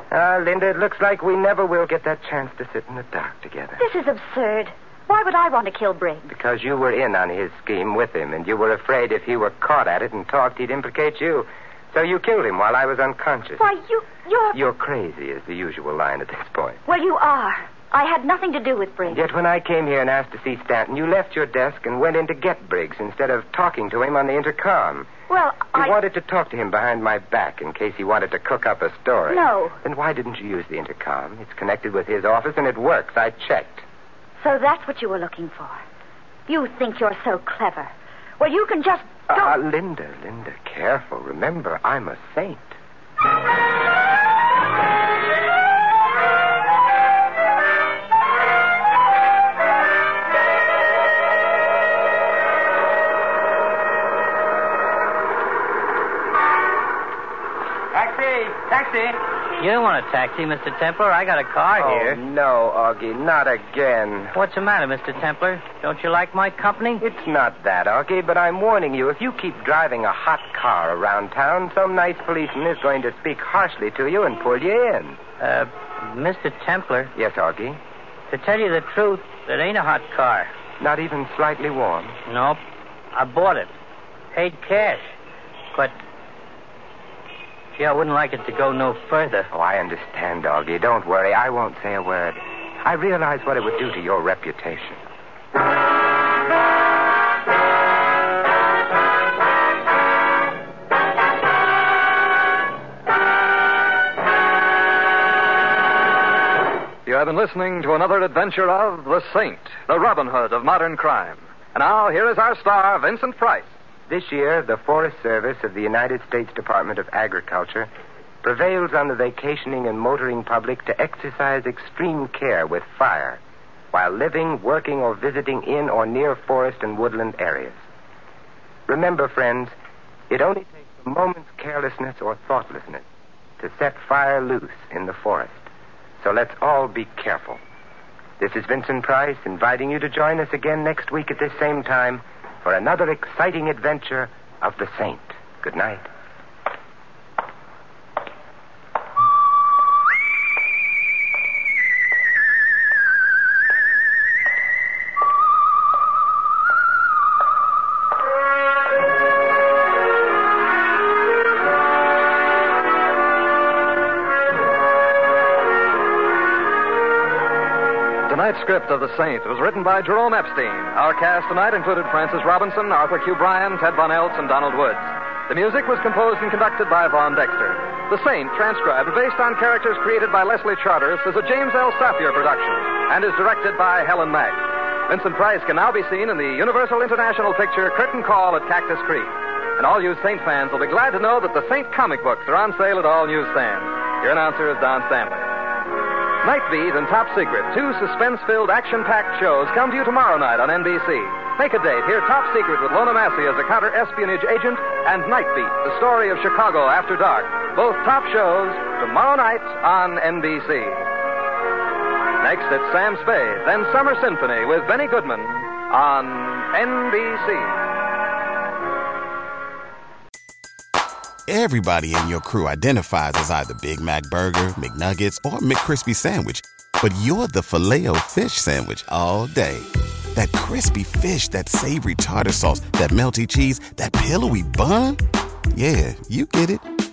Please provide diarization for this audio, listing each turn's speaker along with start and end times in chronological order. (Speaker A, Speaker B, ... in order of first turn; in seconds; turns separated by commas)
Speaker A: 0.1-3.8, Speaker B: 3.8-6.3, Speaker A: 6.3-13.7, Speaker B: 13.6-14.6, Speaker A: 14.5-16.8, Speaker B: 16.9-19.2, Speaker A: 19.1-25.1, Speaker B: 25.3-26.0, Speaker A: 25.7-33.9, Speaker B: 29.3-29.8, Speaker B: 34.4-35.8, Speaker B: 36.5-39.6, Speaker A: 39.3-42.8, Speaker C: 58.1-62.2, Speaker A: 61.8-64.4, Speaker C: 64.3-67.0, Speaker A: 67.0-75.2, Speaker C: 75.4-77.1, Speaker A: 77.2-77.8, Speaker C: 78.3-80.5, Speaker A: 80.8-82.2, Speaker C: 82.3-82.6, Speaker C: 83.1-83.7, Speaker C: 84.3-85.1, Speaker C: 87.8-89.5, Speaker A: 89.5-95.0, Speaker D: 107.0-113.7, Speaker A: 114.1-117.9, Speaker A: 118.4-123.4, Speaker A: 123.9-127.8, Speaker A: 128.9-129.8, Speaker A: 130.3-133.1, Speaker A: 133.6-135.7, Speaker A: 136.2-137.6, Speaker A: 138.4-146.1, Speaker D: 168.3-195.5, Speaker D: 196.4-211.1, Speaker D: 212.4-217.8, Speaker E: 221.5-235.2, Speaker E: 235.7-236.9